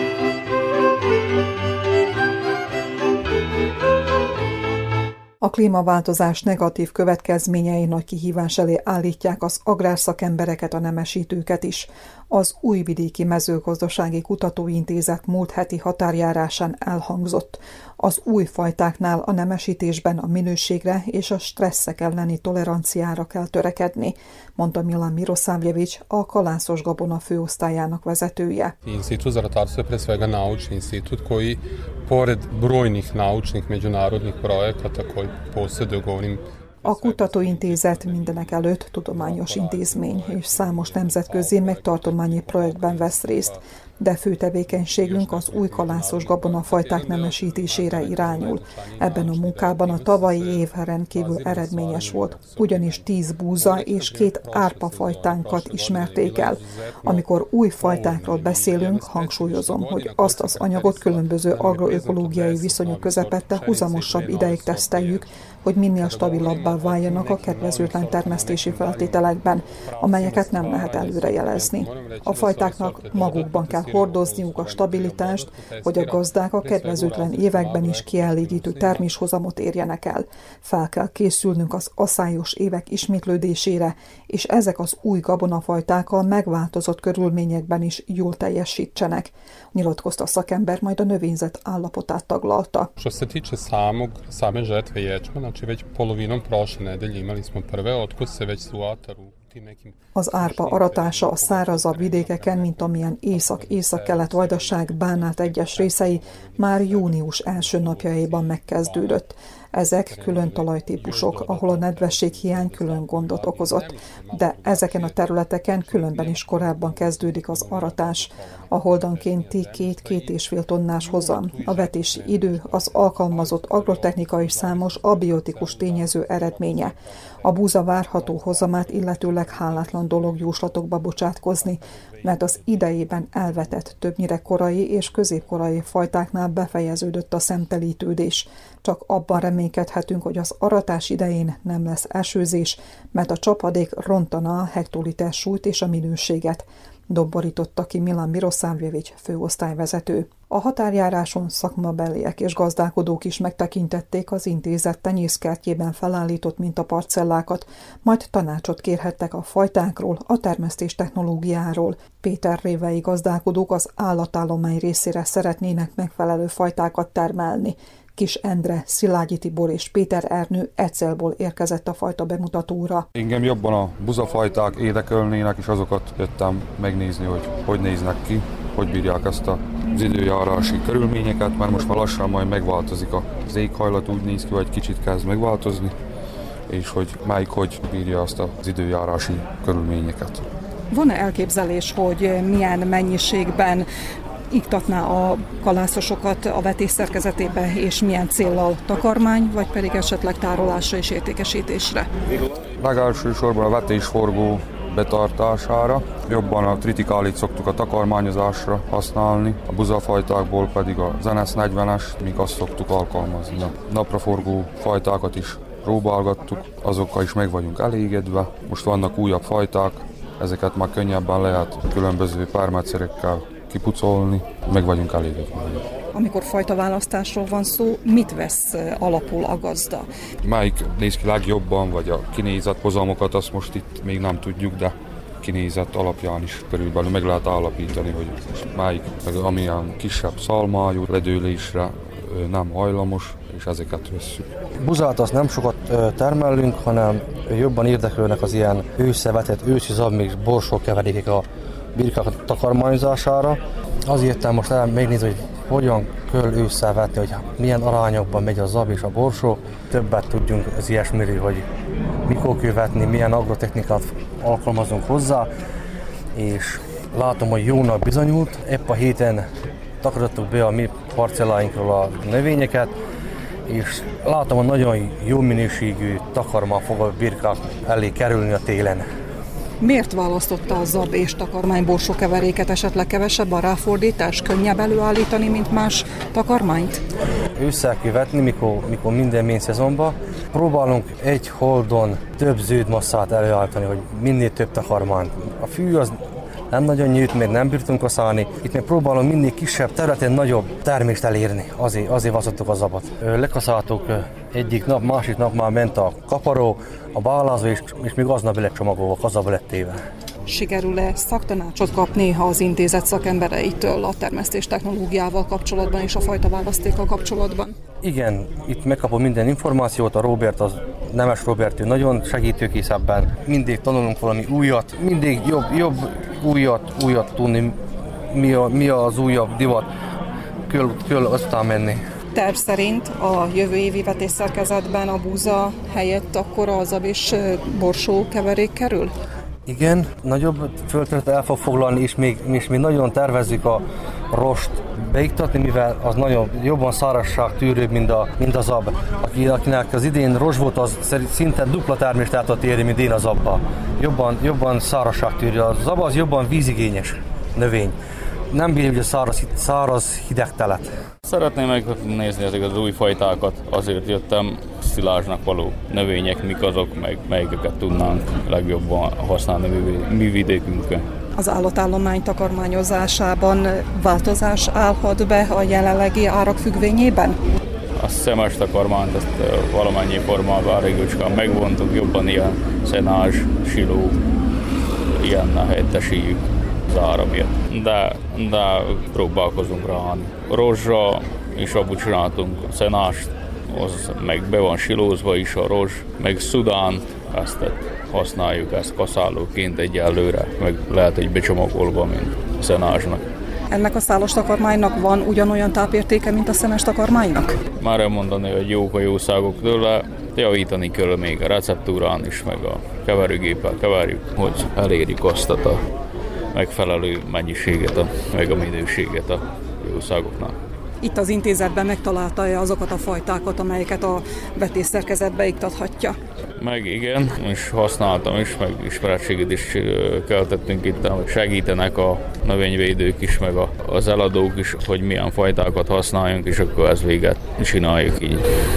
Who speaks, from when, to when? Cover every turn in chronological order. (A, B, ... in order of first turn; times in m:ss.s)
0:05.4-0:28.7 A
0:28.8-0:43.6 B
0:36.8-1:32.9 A
0:44.6-1:05.3 B
1:06.0-1:19.2 B
1:33.0-1:49.2 B
1:40.1-2:53.1 A
1:50.0-2:11.0 B
2:11.5-2:15.6 B
2:53.1-3:05.9 C
3:06.7-3:10.5 C
3:10.9-3:13.9 A
3:14.5-3:22.1 A
3:22.8-3:45.8 C
3:46.1-3:50.1 A
3:50.4-4:04.4 C
4:04.8-4:21.7 D
4:22.2-4:25.5 D
4:26.3-4:29.4 D
4:30.0-4:32.9 D
4:33.7-4:39.0 D
4:39.8-4:47.0 A
4:47.6-4:56.2 D
4:56.7-5:10.0 D
5:10.5-5:17.8 A
5:18.0-5:29.9 D
5:30.7-5:32.0 D
5:32.3-5:39.1 A
5:39.6-5:58.0 D
5:58.5-6:00.9 D
6:01.2-6:11.0 E
6:11.4-6:17.4 A
6:18.0-6:24.2 E
6:25.2-6:43.2 E
6:43.7-6:47.6 A
6:47.8-6:55.8 E
6:56.5-7:00.6 E
7:01.0-7:06.2 A
7:06.6-7:18.4 E